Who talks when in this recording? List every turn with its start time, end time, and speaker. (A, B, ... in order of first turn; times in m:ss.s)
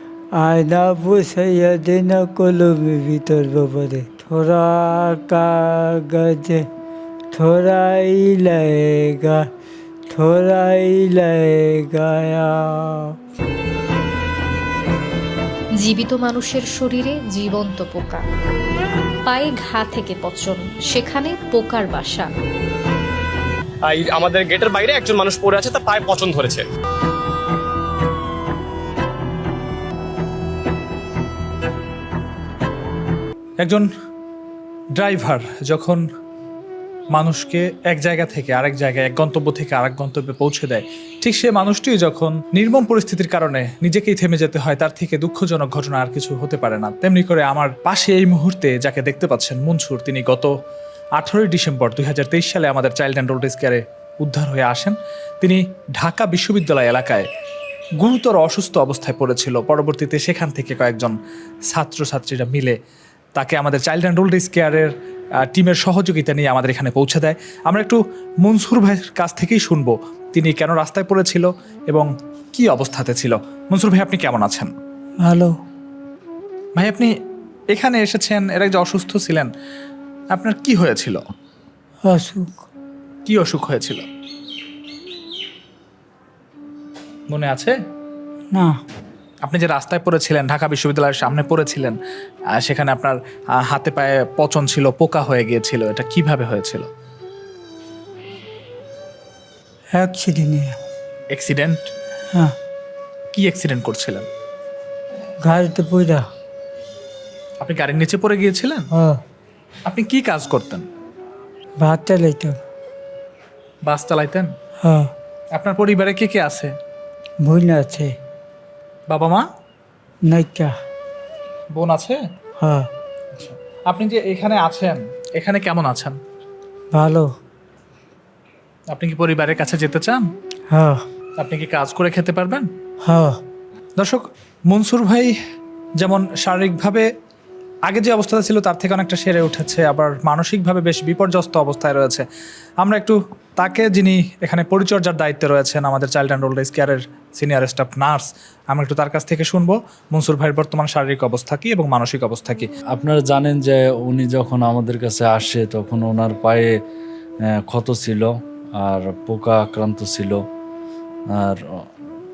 0:00.4-0:06.6 A
0:07.3-0:09.5 A
0:10.1-0:13.2 A
0:15.8-0:18.2 B
0:19.3-0:22.3 B
0:23.9-0:26.6 C
0:33.6-0:33.9 D
0:35.0-0:36.0 D
0:37.1-0:50.5 D
0:51.2-0:57.3 D
0:58.0-1:01.2 D
1:01.7-1:02.8 D
1:03.4-1:04.9 D
1:05.4-1:14.7 D
1:15.2-1:15.5 A
1:16.8-1:17.1 D
1:17.7-1:19.5 D
1:20.3-1:21.2 D
1:22.1-1:22.6 A
1:23.3-1:24.0 D
1:27.3-1:27.8 D
1:29.4-1:32.0 D
1:32.6-1:36.9 D
1:39.9-1:40.8 A
1:41.3-1:41.9 D
1:43.3-1:44.3 D
1:45.4-1:46.2 A
1:47.6-1:48.9 D
1:48.9-1:49.2 A
1:49.9-1:50.8 D
1:51.8-1:52.6 A
1:53.9-1:54.5 D
1:54.8-1:55.1 A
1:55.6-1:56.7 D
1:57.4-1:58.1 A
1:59.1-1:59.4 D
2:00.3-2:00.7 A
2:01.7-2:02.2 D
2:02.6-2:02.9 A
2:03.3-2:06.2 D
2:06.9-2:07.3 A
2:08.9-2:10.3 D
2:10.7-2:11.0 A
2:11.4-2:12.7 D
2:13.0-2:13.4 A
2:14.0-2:15.3 D
2:16.0-2:17.1 D
2:17.9-2:22.2 D
2:22.8-2:32.7 D
2:32.9-2:36.7 E
2:37.7-2:40.4 E
2:41.4-2:41.6 E